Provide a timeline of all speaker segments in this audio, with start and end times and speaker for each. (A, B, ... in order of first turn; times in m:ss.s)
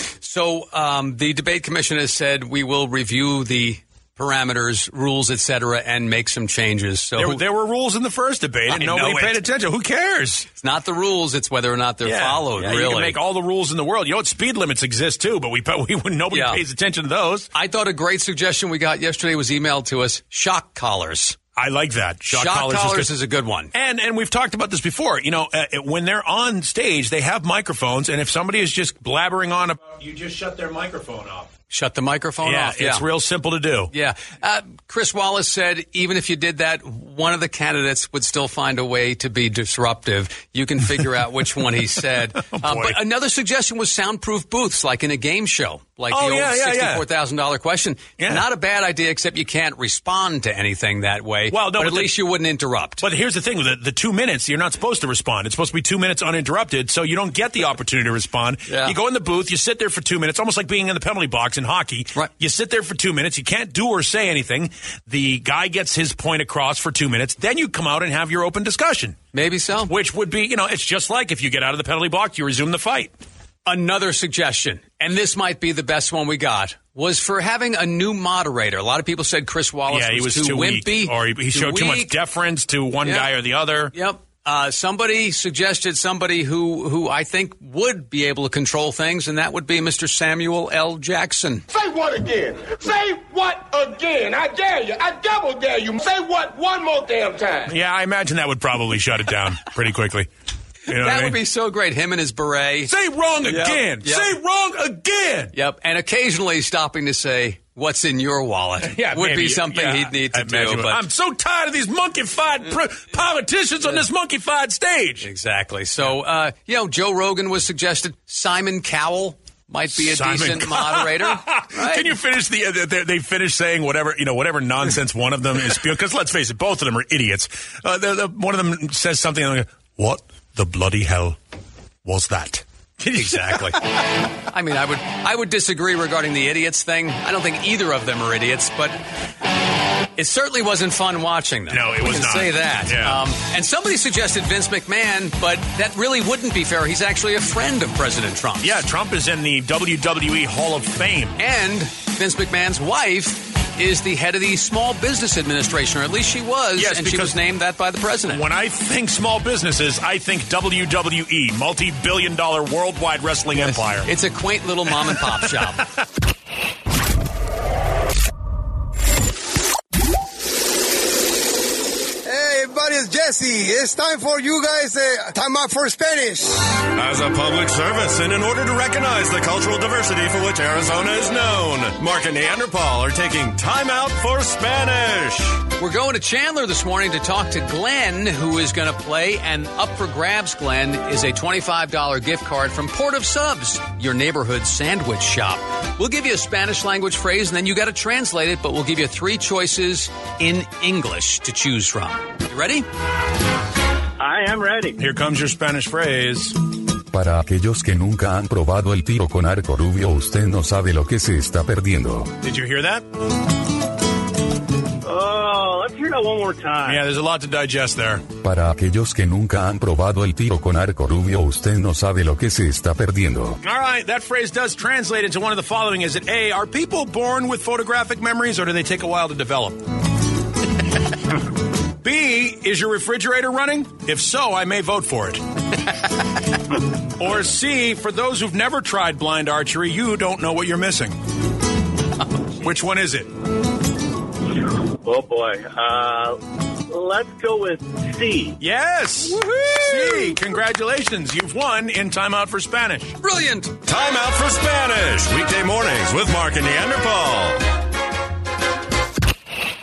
0:00.2-0:07.4 A
0:07.2-0:10.5 B
0:08.7-0:09.4 A
0:10.6-0:13.2 A
0:12.0-0:17.5 B
0:16.3-0:16.6 A
0:17.5-0:21.4 A
0:21.6-0:23.1 B
0:22.3-0:23.7 A
0:23.7-0:31.5 B
0:31.7-0:33.0 A
0:32.4-0:33.9 B
0:33.9-0:53.0 A
0:42.4-0:43.0 B
0:46.1-0:47.0 B
0:48.2-0:48.4 B
0:51.5-0:52.2 B
0:53.0-1:09.2 B
0:58.7-0:59.0 A
1:09.3-1:09.9 A
1:09.9-1:13.1 B
1:13.6-1:22.2 A
1:19.9-1:23.9 B
1:23.0-1:23.3 A
1:23.9-1:31.6 A
1:31.7-1:37.7 C
1:37.7-1:40.3 B
1:40.9-1:41.4 B
1:40.9-1:42.9 A
1:42.9-1:45.5 B
1:43.4-1:44.3 A
1:45.5-1:51.0 A
1:48.8-1:55.3 B
1:55.2-2:02.1 A
2:00.0-2:11.4 B
2:12.0-2:13.8 B
2:13.1-2:13.8 A
2:14.5-2:19.0 A
2:20.2-2:28.7 A
2:21.7-2:23.2 B
2:28.6-2:31.4 B
2:31.4-2:38.4 A
2:36.8-2:37.4 B
2:38.3-2:44.1 B
2:43.6-2:45.8 A
2:52.2-2:56.8 D
2:56.9-3:05.6 E
3:05.8-3:22.8 A
3:24.2-3:25.0 F
3:25.0-3:26.5 B
3:27.1-3:32.3 G
3:32.4-3:33.0 B
3:35.0-3:37.0 F
3:36.8-3:38.2 B
3:38.4-3:43.6 G
3:43.6-3:49.8 B
3:52.0-3:55.4 B
3:57.2-4:01.1 B
4:02.6-4:03.3 B
4:04.8-4:08.6 F
4:08.6-4:13.2 B
4:09.3-4:10.3 A
4:13.2-4:13.7 A
4:13.8-4:17.6 E